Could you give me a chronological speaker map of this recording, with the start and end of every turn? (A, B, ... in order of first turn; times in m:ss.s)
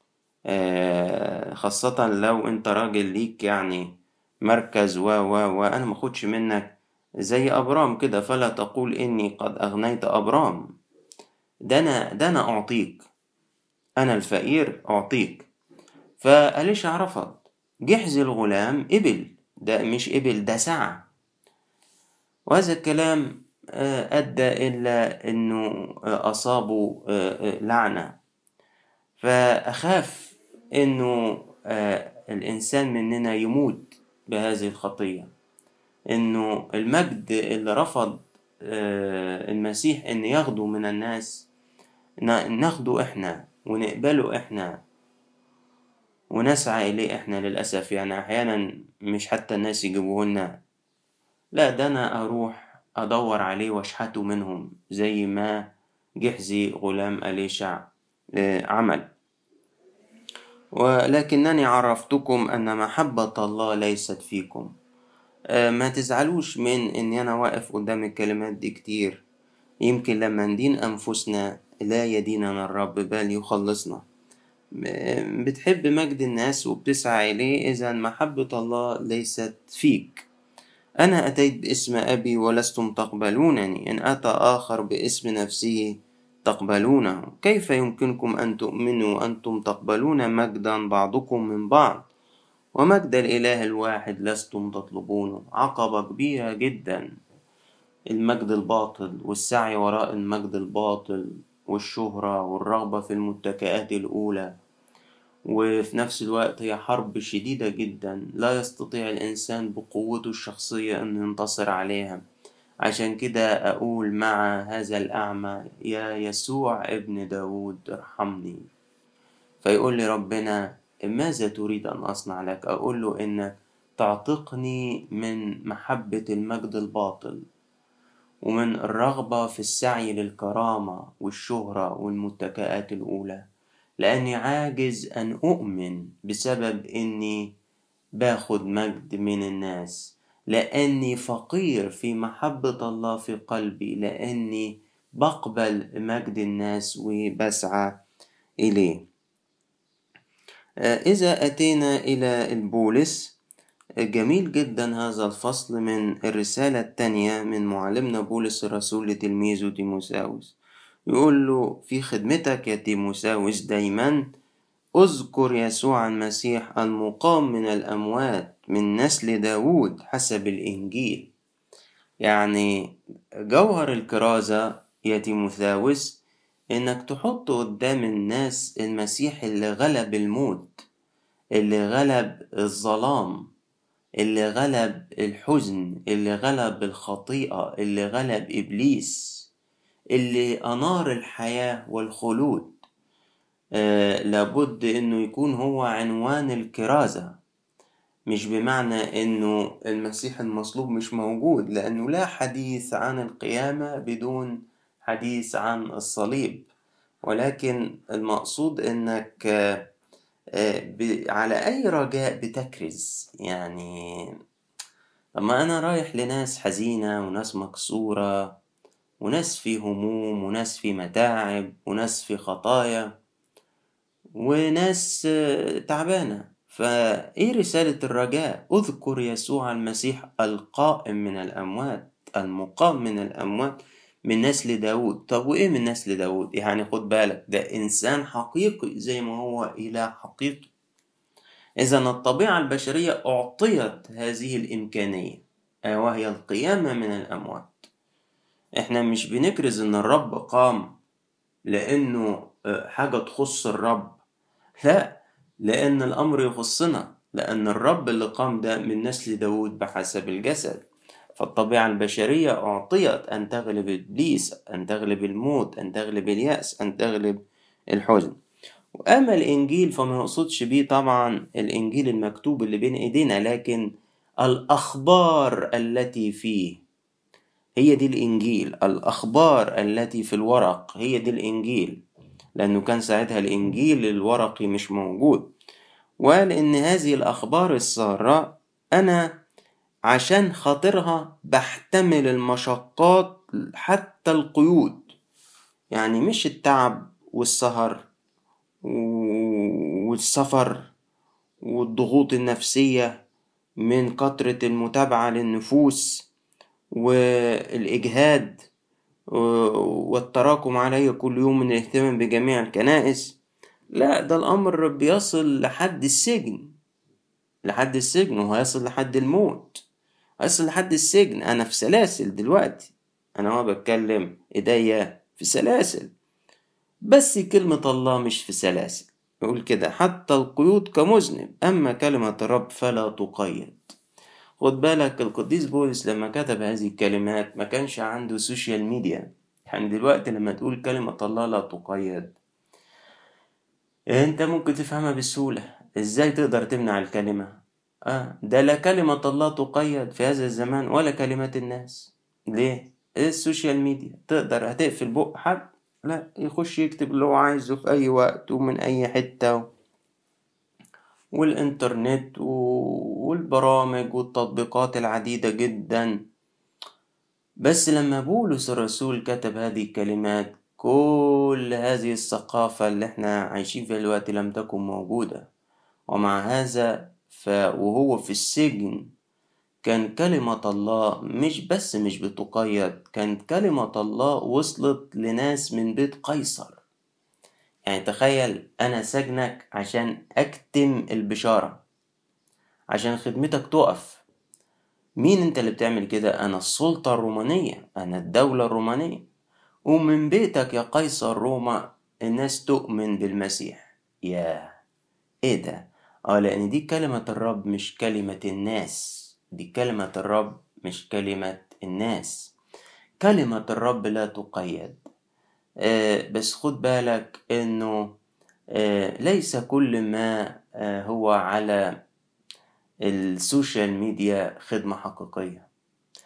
0:00.5-0:03.8 A
0:04.5-0:06.8 A
0:07.3-0:10.7 A
0:11.7-0:13.0 A
0:14.0-0:15.5 A
0:16.2-0:21.0 A
0:22.5-0:25.6 A
0:26.2-0:28.2 A
0:29.2-0:35.3 A
0:36.1-0:41.5 A
0:42.2-0:44.8 A
0:46.3-0:50.5 A
0:51.6-0:55.6 A
0:56.2-0:57.9 A
0:58.4-0:59.1 A
1:00.8-1:04.7 A
1:05.5-1:09.2 A
1:09.8-1:14.0 A
1:14.8-1:20.3 A
1:21.0-1:32.1 A
1:32.8-1:37.0 A
1:38.1-1:44.5 A
1:45.5-1:52.2 A
1:52.8-1:58.6 A
1:59.6-2:07.4 A
2:08.4-2:13.4 A
2:14.0-2:17.5 A
2:18.2-2:27.9 A
2:28.6-2:29.0 A
2:30.8-2:33.4 A
2:34.1-2:40.6 A
2:41.1-2:44.2 A
2:45.0-2:51.3 A
2:52.2-2:52.7 A
2:53.5-2:56.2 A
2:56.7-3:00.8 A
3:01.6-3:03.4 A
3:04.2-3:09.5 A
3:10.1-3:12.8 A
3:13.8-3:17.4 A
3:18.3-3:24.5 A
3:25.1-3:26.7 A
3:27.2-3:29.8 A
3:30.6-3:34.0 A
3:35.4-3:38.3 A
3:39.2-3:43.1 A
3:44.4-3:45.3 A
3:45.9-3:53.8 A
3:54.3-4:00.7 A
4:01.8-4:07.8 A
4:08.8-4:10.9 A
4:11.7-4:14.2 A
4:14.8-4:27.4 A
4:27.9-4:28.4 A
4:29.0-4:33.8 A
4:34.4-4:36.8 A
4:37.8-4:42.0 A
4:42.6-4:45.5 A
4:46.2-4:49.2 A
4:50.1-4:55.1 A
4:55.9-4:58.1 A
4:58.9-5:00.9 A
5:01.7-5:03.1 A
5:03.8-5:06.3 A
5:07.8-5:08.7 A
5:09.4-5:13.4 A
5:14.0-5:16.7 A
5:17.6-5:19.8 A
5:20.4-5:26.1 A
5:27.1-5:33.8 A
5:34.6-5:42.4 A
5:44.2-5:59.6 A
6:01.4-6:06.1 A
6:07.6-6:15.5 A
6:16.1-6:19.1 A
6:19.8-6:26.8 A
6:27.9-6:31.8 A
6:32.9-6:34.2 A
6:35.2-6:39.2 A
6:39.9-6:44.7 A
6:45.4-6:52.5 A
6:53.2-6:55.0 A
6:55.8-6:58.0 A
6:58.8-7:01.8 A
7:03.1-7:05.7 A